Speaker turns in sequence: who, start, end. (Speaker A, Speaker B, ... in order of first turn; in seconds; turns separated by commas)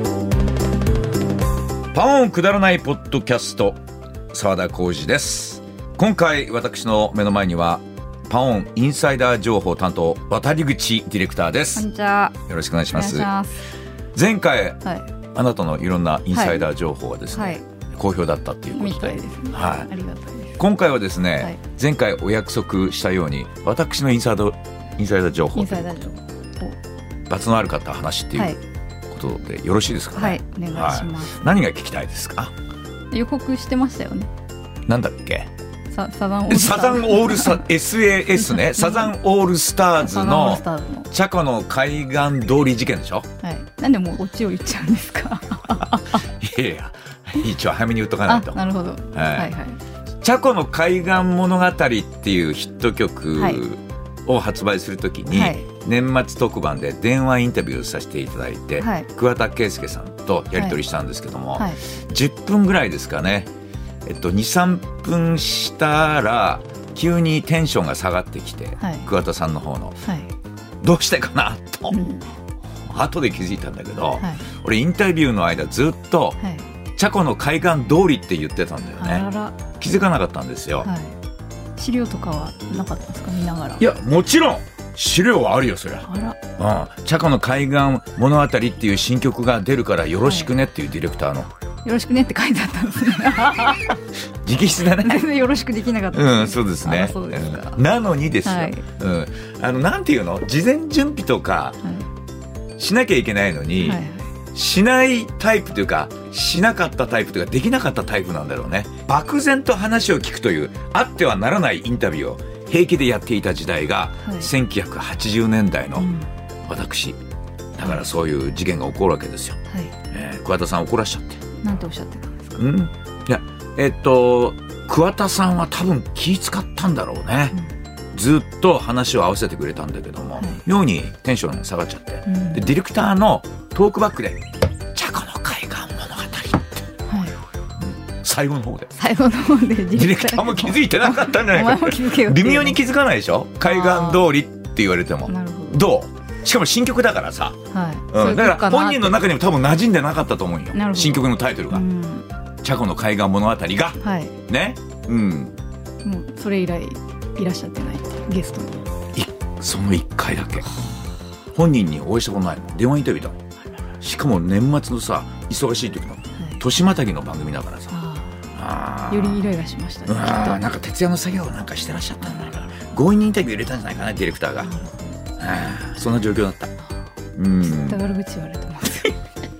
Speaker A: 1.9-3.8, Speaker A: 4.3-11.8, Speaker B: 11.7-12.3, Speaker A: 12.5-13.3, Speaker B: 12.9-13.6, Speaker A: 14.1-14.8, Speaker A: 15.3-19.9, Speaker B: 16.3-16.6, Speaker B: 17.3-17.6, Speaker B: 18.7-20.6, Speaker A: 20.6-25.9, Speaker B: 25.5-26.8, Speaker A: 27.3-28.6, Speaker A: 29.1-32.5, Speaker B: 30.1-31.5, Speaker B: 33.1-34.3, Speaker A: 34.9-35.5, Speaker B: 35.9-37.6, Speaker A: 36.5-43.3, Speaker B: 38.4-39.1, Speaker B: 40.0-41.1, Speaker B: 43.4-46.2, Speaker A: 46.1-48.6, Speaker B: 48.3-49.8, Speaker A: 49.1-49.5, Speaker A: 50.2-63.5, Speaker B: 53.4-53.6, Speaker B: 55.3-55.6, Speaker B: 58.8-59.1, Speaker A: 64.0-70.0, Speaker B: 68.8-69.0, Speaker B: 70.0-70.3, Speaker A: 70.8-72.0, Speaker B: 71.9-72.3, Speaker A: 72.9-76.4, Speaker B: 74.2-74.4, Speaker A: 77.0-80.9, Speaker B: 79.0-79.6, Speaker B: 80.8-81.1, Speaker B: 81.8-83.9, Speaker A: 83.8-91.5, Speaker B: 86.0-86.4, Speaker B: 90.2-90.5, Speaker B: 91.8-94.0, Speaker A: 94.4-95.2, Speaker B: 94.8-97.8, Speaker A: 96.1-101.8, Speaker B: 98.4-98.8, Speaker A: 102.8-116.1, Speaker B: 103.8-104.3, Speaker B: 114.2-114.5, Speaker B: 116.0-116.3, Speaker A: 116.7-117.2, Speaker A: 117.8-119.6, Speaker A: 120.1-121.4, Speaker B: 121.6-122.6, Speaker A: 122.6-127.5, Speaker A: 128.1-134.4, Speaker B: 132.2-132.7, Speaker A: 134.9-136.8, Speaker B: 137.1-137.3, Speaker A: 137.8-138.9, Speaker B: 138.9-142.8, Speaker A: 139.9-147.6, Speaker B: 143.6-144.3, Speaker B: 145.3-145.8, Speaker B: 147.7-149.2, Speaker A: 148.1-151.8, Speaker B: 150.7-152.2, Speaker A: 152.6-155.5, Speaker B: 154.0-154.3, Speaker B: 156.0-158.8, Speaker A: 159.1-160.7, Speaker A: 161.5-163.4, Speaker A: 164.0-167.9, Speaker B: 167.9-168.4, Speaker A: 168.5-169.4, Speaker B: 169.1-170.6, Speaker A: 170.1-174.7, Speaker B: 172.2-172.6, Speaker B: 174.6-175.1, Speaker A: 175.4-176.7, Speaker A: 177.3-178.0, Speaker B: 177.6-179.2